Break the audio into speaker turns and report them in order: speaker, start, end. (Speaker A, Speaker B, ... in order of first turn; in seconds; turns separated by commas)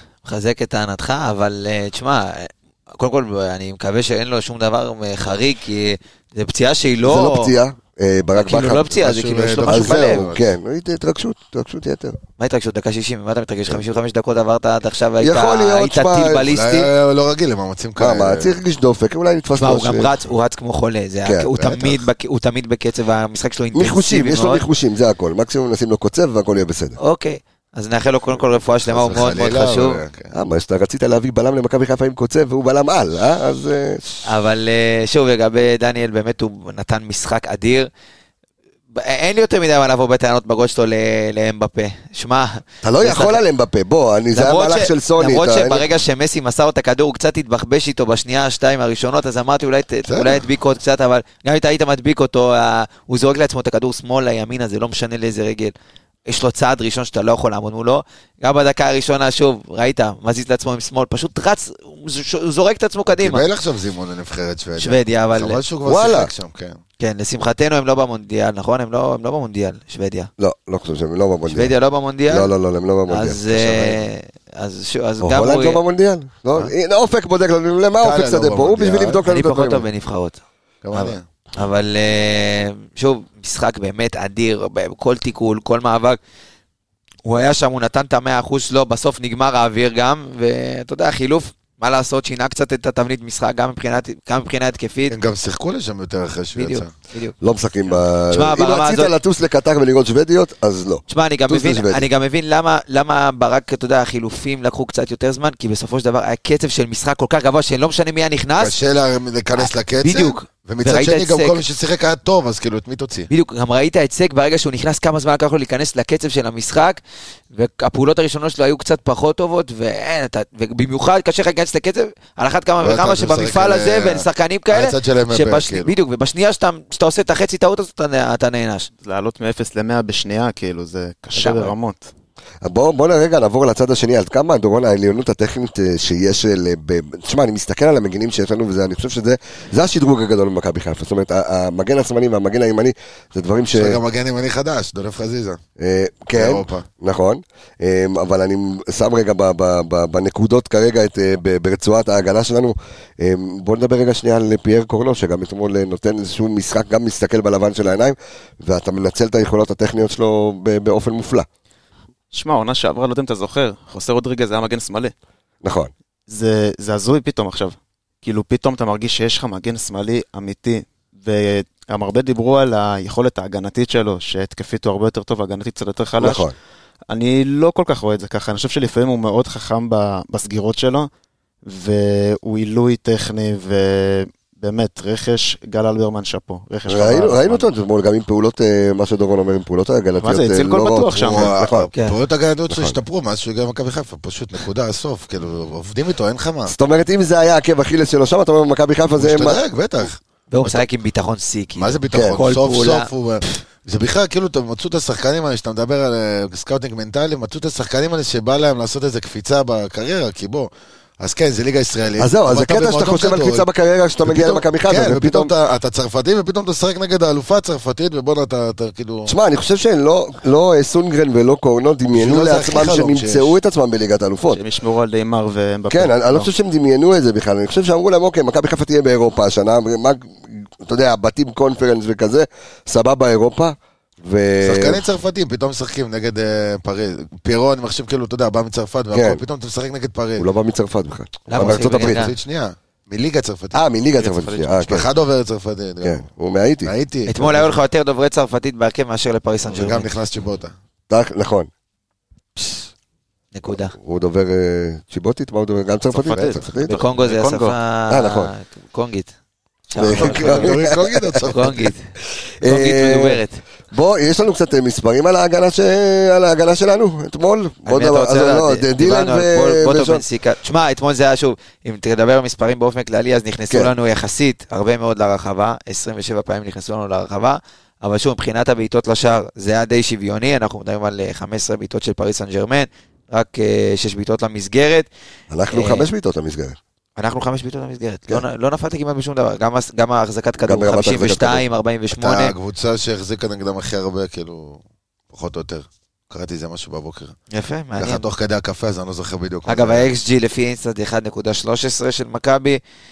Speaker A: 0.2-7.5, Speaker B: 7.0-8.9, Speaker A: 8.3-10.2, Speaker C: 8.9-10.4, Speaker B: 9.7-12.2, Speaker A: 12.4-16.9, Speaker B: 15.2-16.4, Speaker C: 16.5-18.5, Speaker B: 18.0-20.1, Speaker A: 19.5-24.6, Speaker C: 21.6-22.0, Speaker B: 23.7-27.0, Speaker A: 27.0-30.0, Speaker C: 28.8-30.3, Speaker B: 30.3-34.2, Speaker A: 34.2-37.9, Speaker A: 38.9-43.4, Speaker B: 42.8-45.8, Speaker A: 44.3-55.7, Speaker C: 50.0-50.4, Speaker A: 56.2-63.4, Speaker C: 63.1-66.8, Speaker A: 64.8-65.6, Speaker B: 65.8-66.3, Speaker A: 67.0-70.3, Speaker B: 70.4-71.7, Speaker A: 71.5-72.5, Speaker B: 72.3-73.4, Speaker A: 73.1-75.8, Speaker C: 73.5-74.0, Speaker B: 75.2-79.8, Speaker C: 78.0-79.2, Speaker A: 79.2-80.4, Speaker C: 80.8-81.3, Speaker A: 80.9-86.2, Speaker A: 87.2-95.2, Speaker C: 95.1-96.9, Speaker A: 96.5-97.3, Speaker B: 97.4-102.0, Speaker A: 98.3-99.1, Speaker A: 101.1-108.8, Speaker C: 108.6-113.3, Speaker A: 109.5-111.6, Speaker A: 113.3-117.0, Speaker A: 117.5-128.9, Speaker C: 122.8-125.9, Speaker D: 129.0-132.1, Speaker A: 131.3-131.7, Speaker B: 132.6-144.0, Speaker C: 143.7-145.6, Speaker B: 145.8-161.5, Speaker C: 146.3-146.9, Speaker D: 162.3-165.1, Speaker B: 165.6-165.9, Speaker D: 166.3-176.4, Speaker B: 176.2-176.5, Speaker D: 177.1-181.1, Speaker D: 181.6-187.7, Speaker B: 186.9-191.9, Speaker D: 190.2-191.5, Speaker C: 191.2-196.7, Speaker B: 192.7-193.0, Speaker B: 196.7-199.6, Speaker C: 199.2-200.8, Speaker A: 200.5-203.1, Speaker C: 201.8-213.6, Speaker B: 202.1-202.4, Speaker B: 212.2-215.5, Speaker C: 214.2-219.3, Speaker B: 219.3-224.6, Speaker C: 222.1-223.5, Speaker D: 224.5-226.5, Speaker B: 225.9-235.0, Speaker C: 234.6-240.4, Speaker B: 239.1-239.4, Speaker B: 240.4-242.2, Speaker A: 241.5-242.3, Speaker C: 241.5-243.8, Speaker B: 243.7-245.1, Speaker D: 244.2-244.8, Speaker C: 244.8-246.2, Speaker B: 246.0-246.9, Speaker C: 246.8-247.8, Speaker A: 247.3-250.1, Speaker C: 249.7-250.7, Speaker B: 251.1-251.7, Speaker A: 253.5-253.9, Speaker B: 254.0-257.0, Speaker D: 256.1-257.8, Speaker C: 256.3-256.6, Speaker A: 256.9-259.3, Speaker B: 258.1-258.5, Speaker A: 259.9-260.8, Speaker B: 260.0-261.4, Speaker C: 260.0-261.9, Speaker A: 261.4-262.0, Speaker B: 262.6-263.4, Speaker A: 262.6-263.6, Speaker B: 263.9-270.2, Speaker A: 267.9-285.1, Speaker B: 285.5-286.8, Speaker A: 285.7-286.1, Speaker A: 287.2-292.5, Speaker B: 290.6-291.6, Speaker C: 292.2-297.3, Speaker A: 297.5-298.2, Speaker C: 298.0-300.1, Speaker A: 299.6-302.8